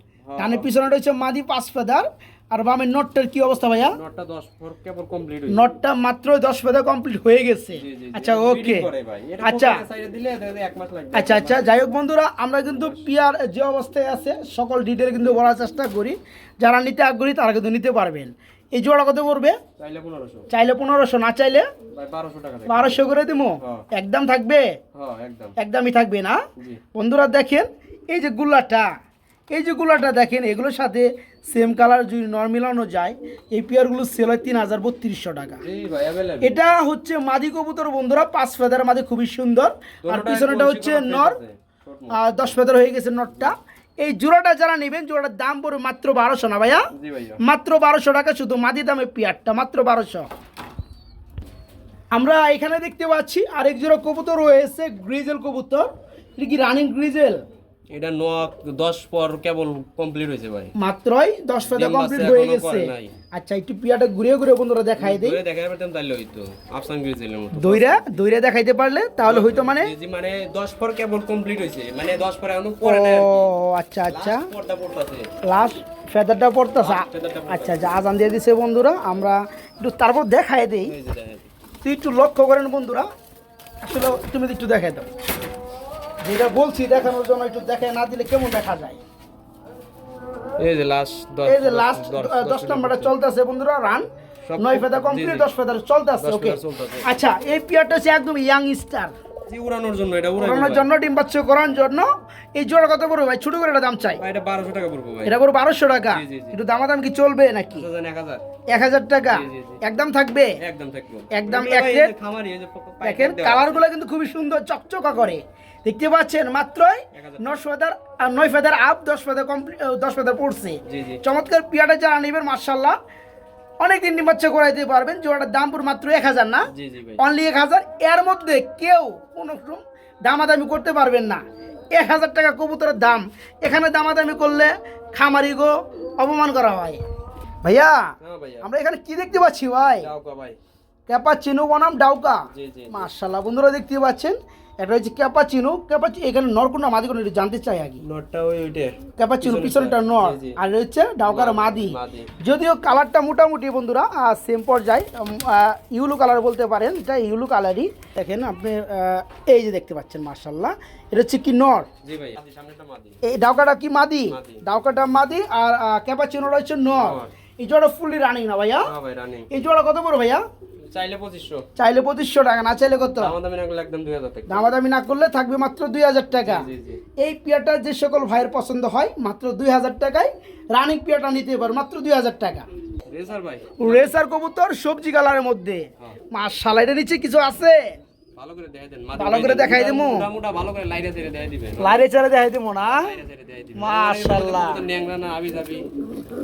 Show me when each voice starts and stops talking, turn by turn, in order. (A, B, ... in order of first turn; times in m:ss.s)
0:00.2-0:00.7 A
0:00.4-0:04.0 B
0:03.8-0:05.7 A
0:05.5-0:08.9 B
0:07.7-0:11.7 A
0:09.4-0:09.8 B
0:11.1-0:19.6 B
0:12.7-0:13.0 A
0:19.8-0:20.5 A
0:20.5-0:21.6 B
0:21.9-0:23.0 A
0:22.7-0:24.7 B
0:23.6-0:23.8 A
0:24.9-0:25.5 A
0:25.6-0:26.4 B
0:26.9-0:28.9 B
0:29.5-0:35.6 B
0:35.6-0:36.6 A
0:36.4-0:41.4 B
0:40.0-0:42.6 A
0:42.1-0:46.8 B
0:46.9-0:47.4 A
0:47.4-0:50.3 B
0:52.1-0:57.4 B
0:57.9-1:00.7 A
1:00.8-1:05.4 B
1:01.6-1:03.1 A
1:05.0-1:08.2 A
1:07.5-1:09.9 B
1:09.2-1:13.5 A
1:12.8-1:14.5 B
1:14.1-1:15.3 A
1:15.4-1:20.9 B
1:16.8-1:18.0 A
1:20.8-1:21.5 A
1:21.8-1:23.1 B
1:23.8-1:25.0 B
1:26.2-1:29.0 B
1:30.6-1:33.1 A
1:31.4-1:39.1 B
1:34.5-1:35.5 A
1:36.2-1:37.1 A
1:39.5-1:40.9 A
1:40.4-1:44.2 B
1:44.2-1:45.4 A
1:45.2-1:47.8 B
1:46.1-1:46.6 A
1:47.7-1:48.4 A
1:48.7-1:50.6 B
1:49.2-1:49.8 A
1:50.6-1:53.8 A
1:51.3-1:52.1 B
1:53.0-2:03.0 B
1:57.1-1:57.6 A
2:00.8-2:01.2 A
2:03.8-2:11.4 B
2:06.7-2:07.2 A
2:11.9-2:17.0 B
2:17.6-2:18.1 B
2:18.2-2:18.7 A
2:18.6-2:20.1 B
2:19.8-2:20.6 A
2:21.1-2:28.0 B
2:22.5-2:23.0 A
2:28.0-2:30.6 A
2:29.2-2:41.9 B
2:31.2-2:32.3 A
2:42.0-2:43.2 A
2:43.2-2:48.9 B
2:44.3-2:44.6 A
2:46.9-2:47.3 A
2:48.8-2:49.5 A
2:49.5-2:50.4 B
2:50.9-2:51.6 A
2:51.8-2:53.3 B
2:53.1-2:54.7 A
2:54.5-2:56.6 B
2:56.3-2:57.0 A
2:57.2-3:02.6 B
3:03.1-3:04.2 A
3:03.8-3:07.9 B
3:08.4-3:12.0 A
3:09.2-3:10.2 B
3:11.8-3:13.1 B
3:12.8-3:15.9 A
3:13.8-3:14.8 B